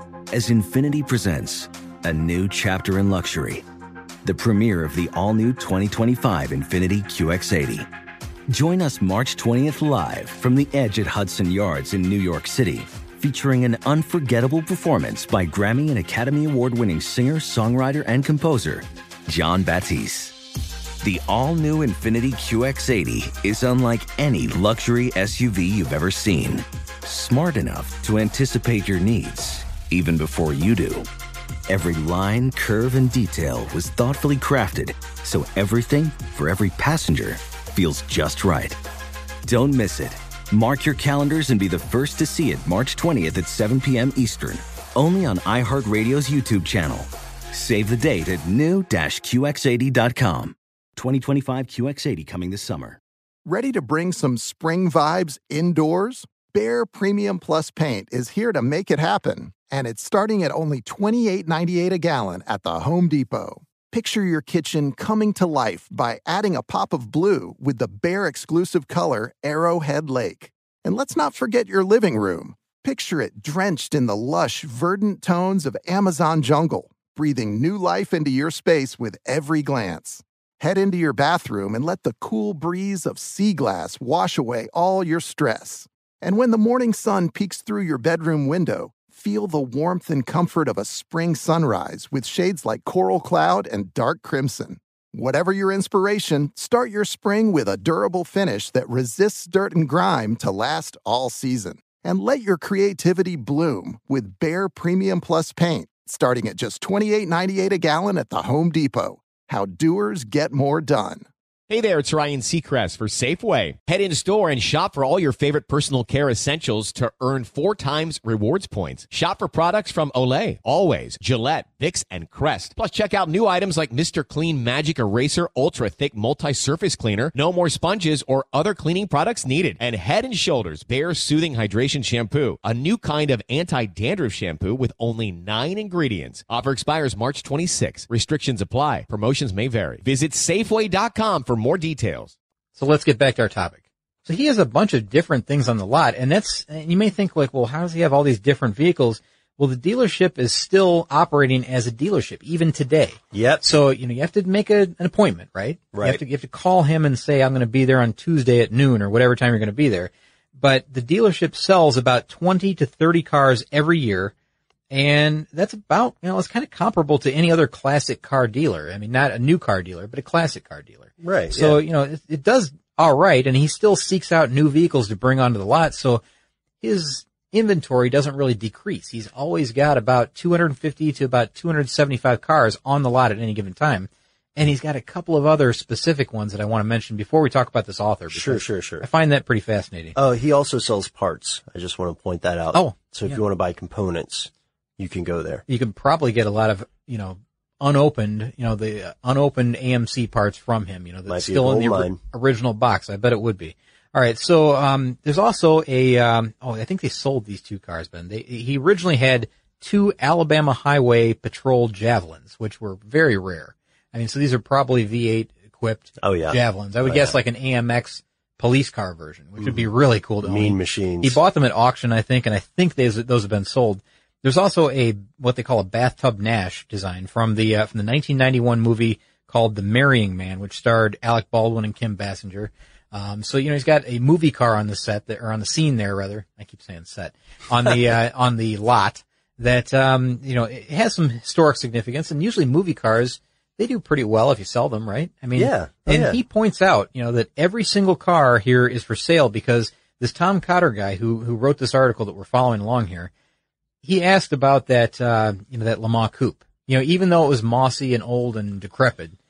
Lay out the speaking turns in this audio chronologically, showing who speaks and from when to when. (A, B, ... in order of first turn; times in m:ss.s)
0:00.3-0:03.6 A
0:04.2-0:07.9 A
0:08.5-0:20.4 A
0:21.0-0:31.1 A
0:31.7-0:38.8 A
0:39.4-0:53.0 A
0:53.5-1:51.3 B
1:51.7-2:22.4 C
2:22.8-2:44.3 D
2:33.3-2:33.6 E
2:35.9-2:36.2 E
2:44.9-2:56.2 D
2:51.2-2:51.8 E
2:56.8-3:10.2 D
3:08.3-3:09.1 E
3:10.2-3:15.6 E
3:12.7-3:13.4 D
3:15.7-4:13.3 D
3:21.3-3:22.2 E
3:36.2-3:37.4 E
3:39.6-3:39.8 E
3:40.4-3:41.4 E
4:05.6-4:06.4 E
4:14.0-4:19.4 D